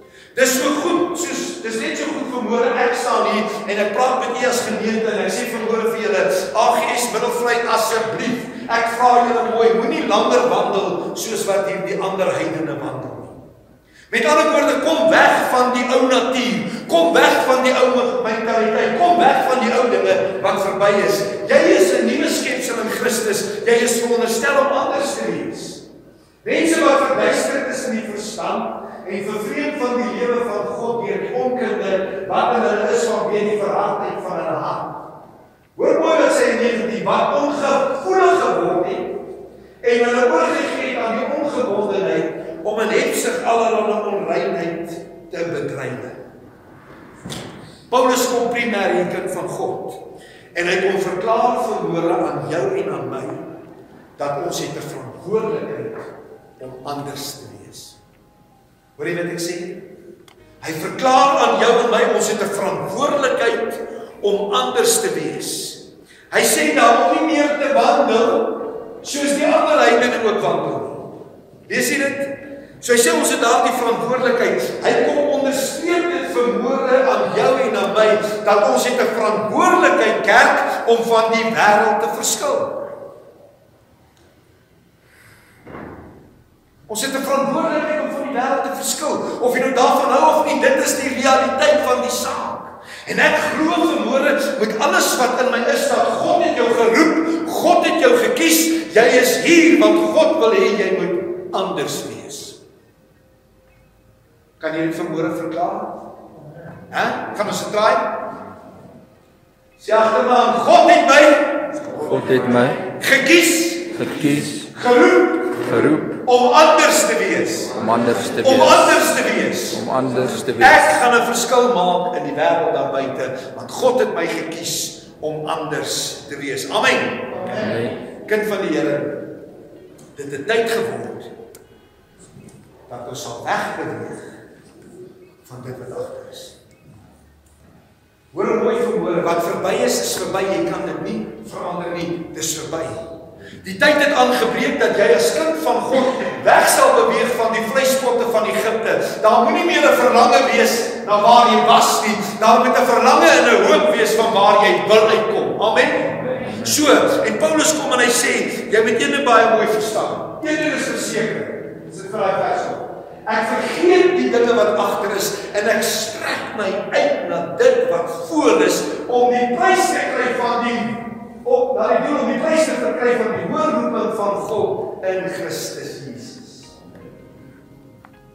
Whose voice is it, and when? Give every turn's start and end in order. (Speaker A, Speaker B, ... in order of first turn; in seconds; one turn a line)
Speaker A: 0.3-13.4
Speaker A: 14.1-25.8
Speaker A: 26.4-35.0
Speaker A: 35.8-39.1
Speaker A: 39.8-46.2
Speaker A: 47.9-50.0
Speaker A: 50.5-53.5
Speaker A: 54.2-58.0
Speaker A: 59.0-59.8
Speaker A: 60.6-71.1
Speaker A: 71.7-82.8
Speaker A: 86.9-102.6
Speaker A: 104.6-106.0
Speaker A: 106.9-108.2
Speaker A: 109.8-111.7
Speaker B: 112.1-112.8
Speaker A: 113.0-117.8
Speaker B: 114.0-114.7
Speaker B: 115.7-116.1
Speaker B: 117.8-119.0
Speaker A: 118.4-119.8
Speaker B: 119.7-120.8
Speaker A: 120.6-127.7
Speaker B: 127.5-127.9
Speaker A: 128.3-129.2
Speaker A: 130.2-131.3
Speaker A: 132.9-134.3
Speaker A: 135.4-136.6
Speaker A: 138.3-143.1
Speaker A: 143.6-176.8